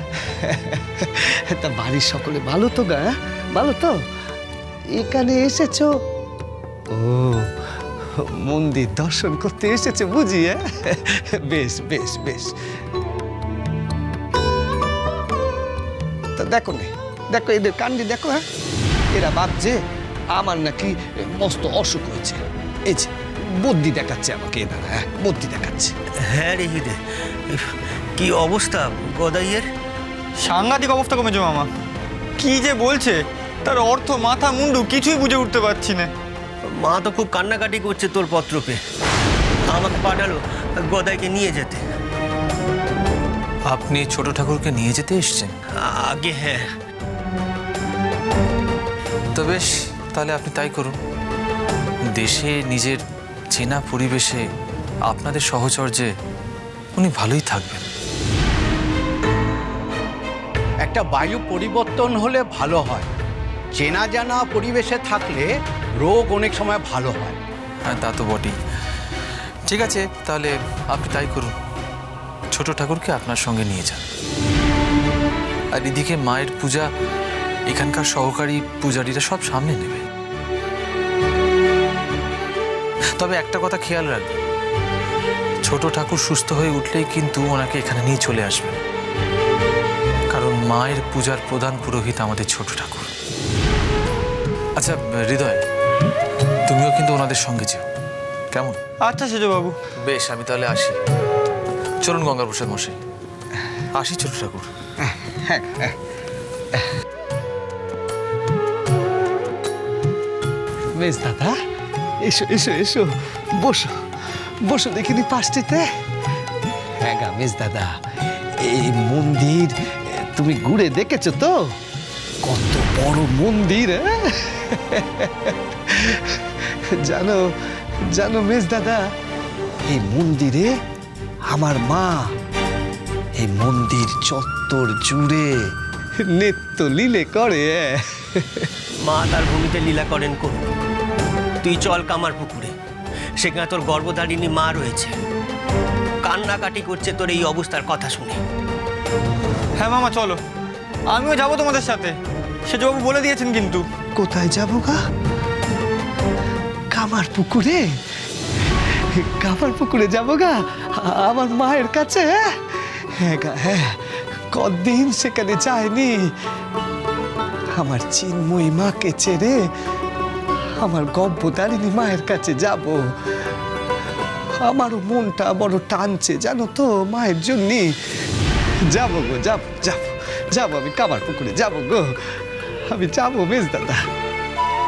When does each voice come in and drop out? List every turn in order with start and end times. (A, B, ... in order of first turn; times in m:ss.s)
0:00.3-0:04.0 A
0:04.9-0:05.9 A
0:06.9-0:07.5 A
0:08.2-0:12.5 A
0:16.4-0:18.4 A
0:19.1-0:19.8 A
0:20.3-0:25.9 A
0:26.2-0:29.7 B
0:30.4-0:31.7 C
0:32.4-0:36.1 C
0:36.7-0:38.8 B
0:39.7-0:41.8 B
0:43.7-0:45.5 D
0:45.8-0:46.7 B
0:49.4-0:51.0 D
0:52.1-0:53.0 D
0:53.5-0:54.4 D
0:55.1-0:56.1 D
0:57.0-0:57.8 D
1:00.8-1:03.1 E
1:03.7-1:07.4 E
1:07.8-1:08.6 D
1:09.7-1:11.6 D
1:12.5-1:14.0 D
1:15.7-1:16.9 D
1:17.7-1:20.0 D
1:23.2-1:24.4 D
1:25.6-1:28.8 D
1:30.3-1:33.1 D
1:34.8-1:35.6 D
1:36.7-1:37.9 D
1:38.5-1:38.8 D
1:39.0-1:39.8 C
1:40.0-1:41.0 D
1:42.0-1:43.0 D
1:43.9-1:44.7 D
1:45.0-1:46.0 A
1:51.0-1:51.6 A
1:52.2-1:53.9 A
1:54.6-1:55.9 A
1:57.0-1:57.9 A
1:58.6-2:01.6 A
2:02.4-2:06.4 A
2:07.0-2:07.4 A
2:08.1-2:09.0 A
2:09.9-2:10.7 A
2:11.5-2:12.2 A
2:13.4-2:15.5 A
2:16.3-2:18.7 A
2:19.0-2:20.7 B
2:21.6-2:22.7 B
2:23.4-2:25.2 B
2:26.2-2:28.4 B
2:29.8-2:30.4 C
2:31.1-2:32.2 C
2:32.7-2:33.9 C
2:34.2-2:35.0 A
2:36.9-2:37.9 A
2:38.8-2:46.3 A
2:47.8-2:49.6 A
2:50.8-2:53.0 A
2:54.6-2:57.9 A
2:58.9-3:02.4 A
3:02.9-3:04.0 A